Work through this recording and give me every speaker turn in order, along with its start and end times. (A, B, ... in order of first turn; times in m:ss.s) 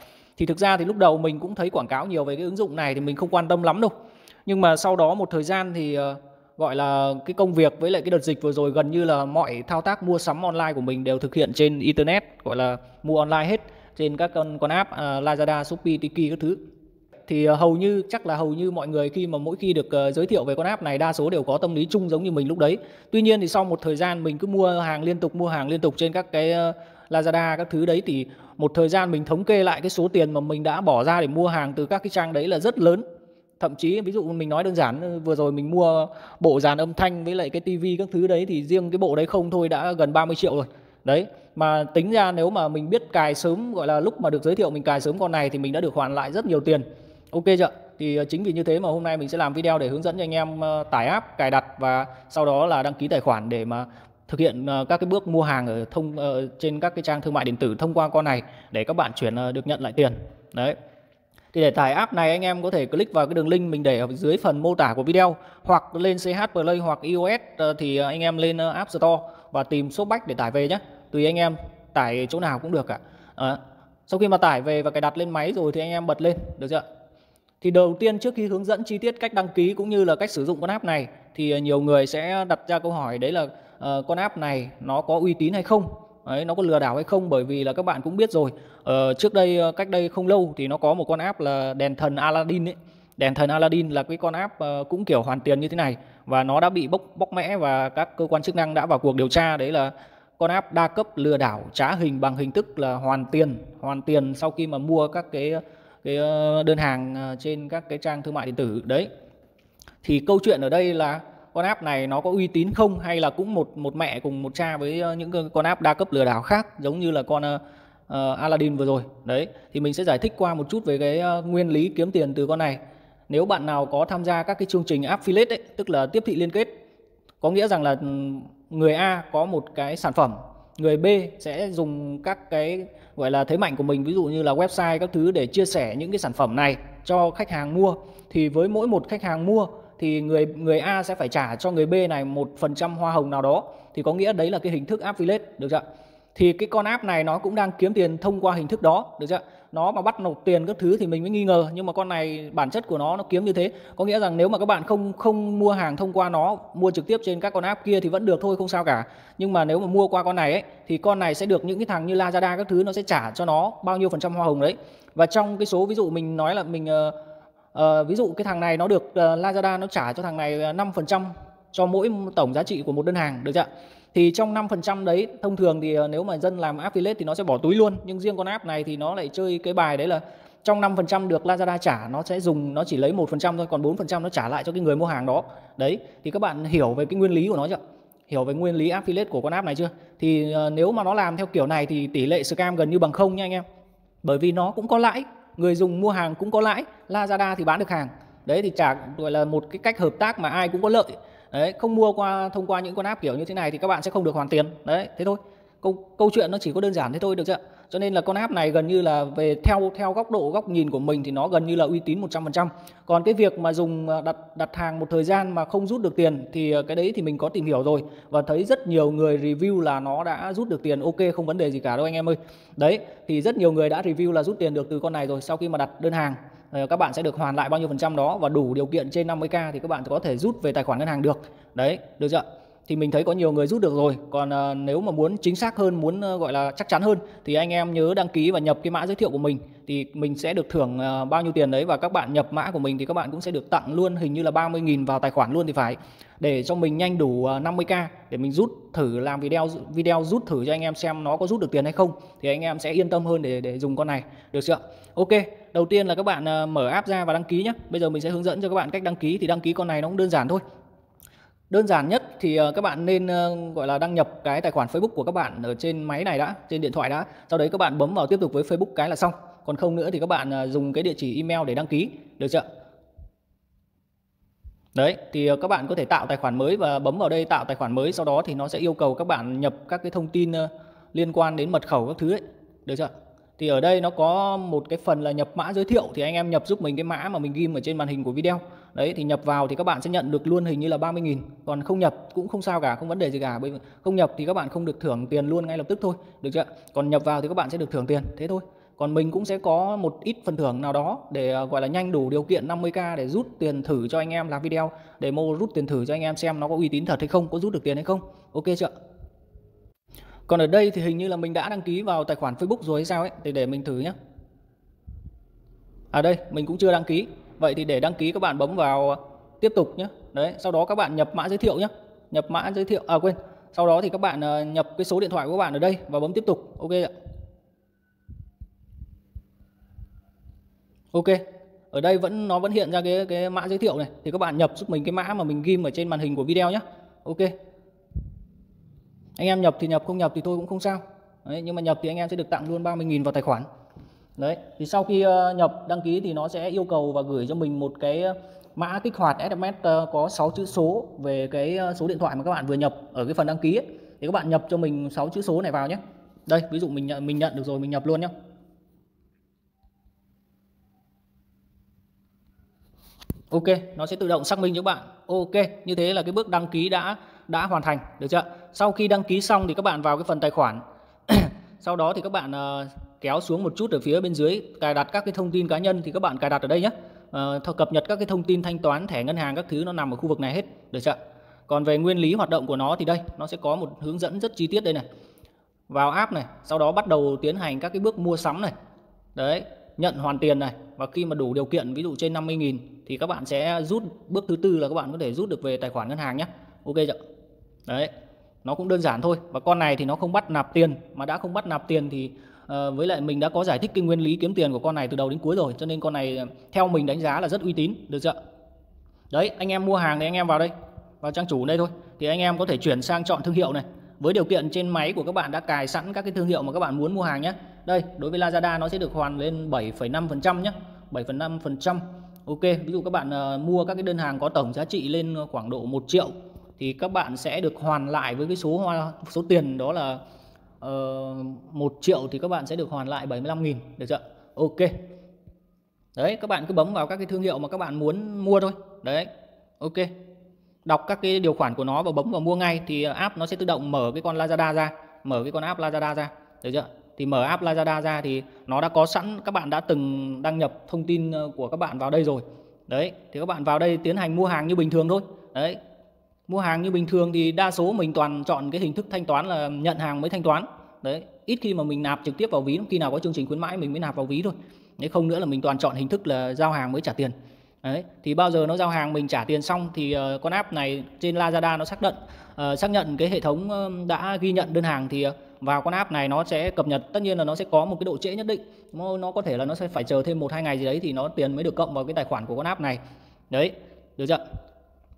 0:00.4-0:03.9 A
0:04.5-0:16.6 A
0:17.3-0:33.0 A
0:33.6-1:00.8 A
1:01.5-1:16.8 A
1:17.6-1:49.1 A
1:50.0-2:06.7 A
2:07.4-2:25.8 A
2:26.4-2:47.2 A
2:47.7-3:13.6 A
3:14.2-4:20.6 A
4:21.7-4:32.6 A
4:35.0-5:08.9 A
5:10.5-5:14.1 A
5:16.1-5:27.1 A
5:31.1-5:37.5 A
5:39.4-5:43.7 A
5:44.4-5:58.3 A
6:03.5-6:21.2 A
6:21.7-6:25.0 A
6:25.9-6:28.7 A
6:29.4-6:37.2 A
6:38.6-6:48.4 A
6:49.3-7:10.2 A
7:10.8-7:14.9 A
7:16.2-7:19.3 A
7:19.8-7:20.1 A
7:20.9-7:35.8 A
7:36.5-8:03.0 A
8:03.5-8:04.4 A